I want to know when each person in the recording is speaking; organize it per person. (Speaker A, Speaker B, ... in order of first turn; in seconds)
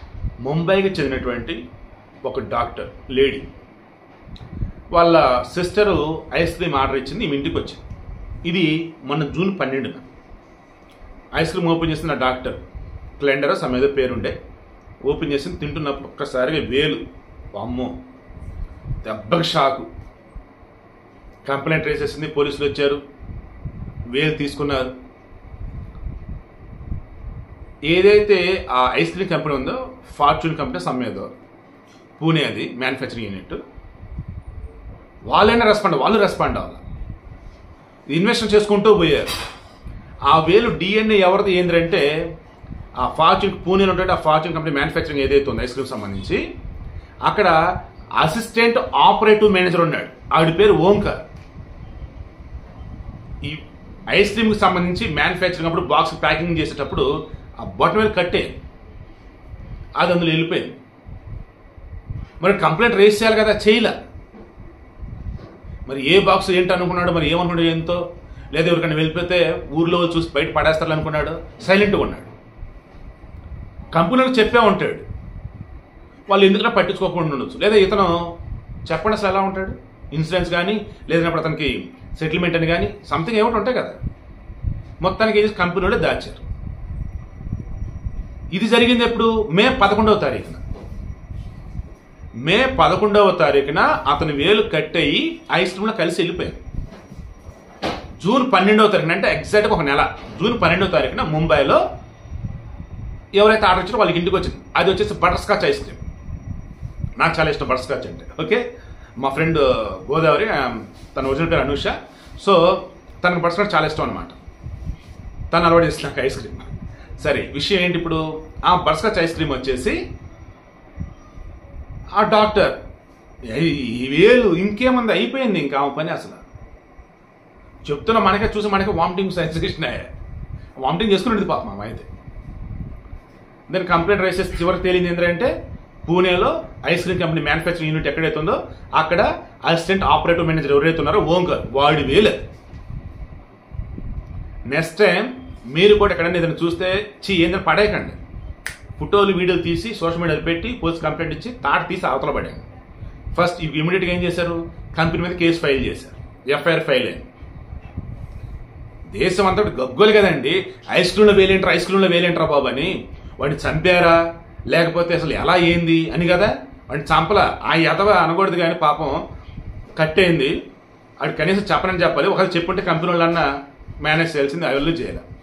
Speaker A: 0.4-1.6, 2.2-3.5, 4.9-7.8, 8.4-10.1, 11.3-12.6, 13.2-14.4, 15.1-17.0, 17.5-17.9, 19.0-19.9, 21.4-23.0, 24.1-24.9, 27.9-31.3, 32.2-33.6, 35.3-36.8, 38.1-39.3, 40.3-42.0, 43.0-46.4, 47.3-47.6, 48.2-51.2, 53.4-58.5, 60.0-60.8, 62.4-64.0, 65.9-72.3, 73.9-75.0, 76.3-78.2, 78.9-84.0, 85.0-86.4, 88.5-90.6, 92.4-96.6, 98.2-101.8, 103.3-106.0, 107.2-108.6, 109.2-114.4, 115.5-120.0, 122.2-122.8, 123.5-126.4, 127.9-130.1, 130.8-132.1, 133.7-135.5, 136.1-142.4, 144.7-148.2, 149.0-152.6, 153.3-157.3, 159.1-169.2, 170.0-170.5, 171.2-173.5, 174.0-175.2